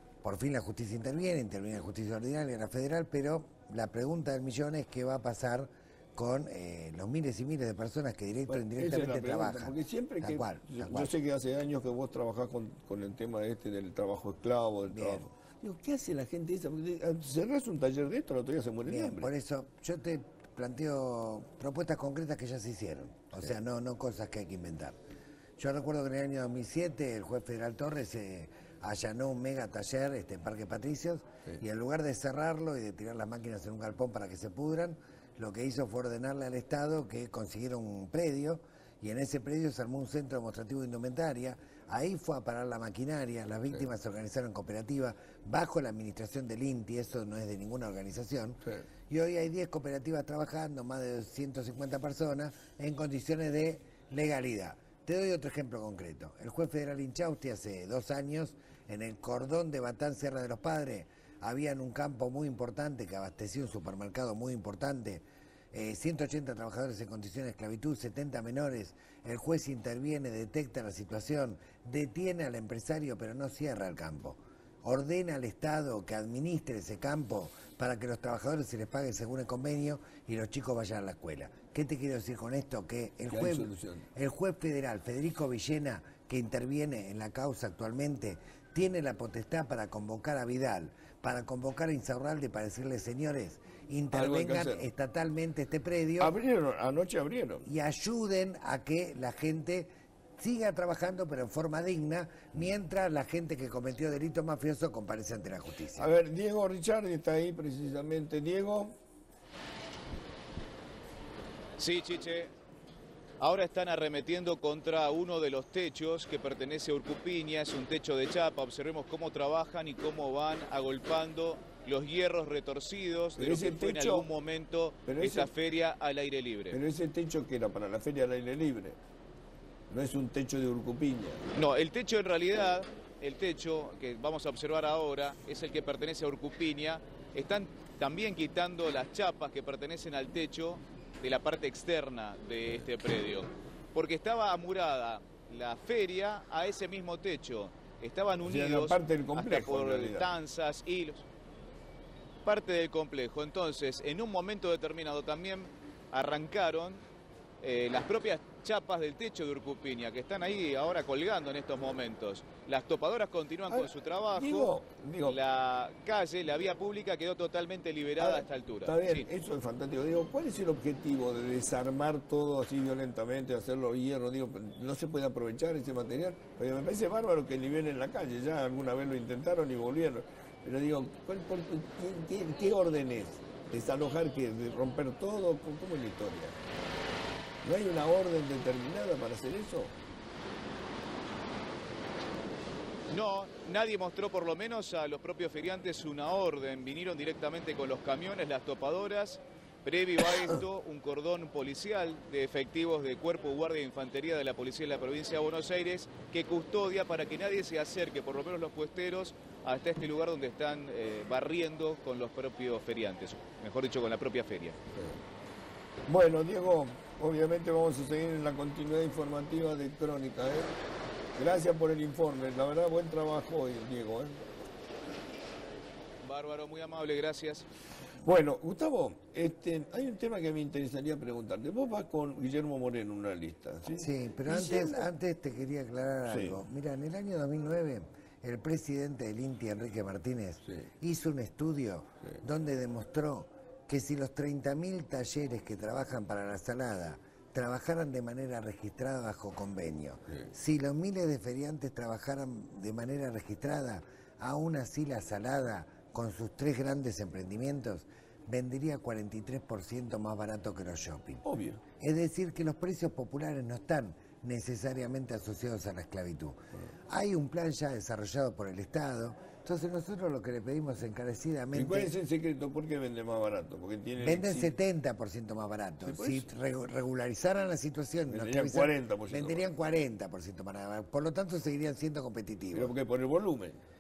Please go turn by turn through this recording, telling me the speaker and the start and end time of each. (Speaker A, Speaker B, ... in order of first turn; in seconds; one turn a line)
Speaker A: 0.2-11.1
Speaker B: 8.5-19.3
Speaker A: 14.9-15.3
Speaker A: 18.9-25.0
Speaker A: 25.6-96.3
Speaker B: 83.3-84.1
Speaker B: 94.1-94.9
Speaker B: 96.2-97.7
Speaker A: 97.7-106.1
Speaker B: 106.0-109.0
Speaker C: 111.8-112.5
Speaker C: 113.4-126.8
Speaker B: 123.4-124.3
Speaker B: 125.1-125.5
Speaker B: 126.7-129.0
Speaker B: 129.9-131.4
Speaker C: 131.6-151.3
Speaker B: 148.4-150.3
Speaker C: 152.4-157.0
Speaker C: 157.6-164.7
Speaker B: 163.7-165.4
Speaker C: 165.2-169.3
Speaker B: 168.2-186.6
Speaker B: 187.6-189.9
Speaker C: 193.1-214.8
Speaker B: 214.9-215.2
Speaker B: 216.1-220.8
Speaker B: 221.3-224.4
Speaker C: 226.2-227.7
Speaker B: 228.2-235.1
Speaker A: 234.0-261.4
Speaker B: 236.3-236.6
Speaker B: 261.4-261.8
Speaker A: 262.0-266.6
Speaker A: 267.1-272.1
Speaker B: 271.7-274.7
Speaker A: 274.2-282.9
Speaker B: 276.0-276.5
Speaker B: 278.3-279.6
Speaker B: 282.7-283.8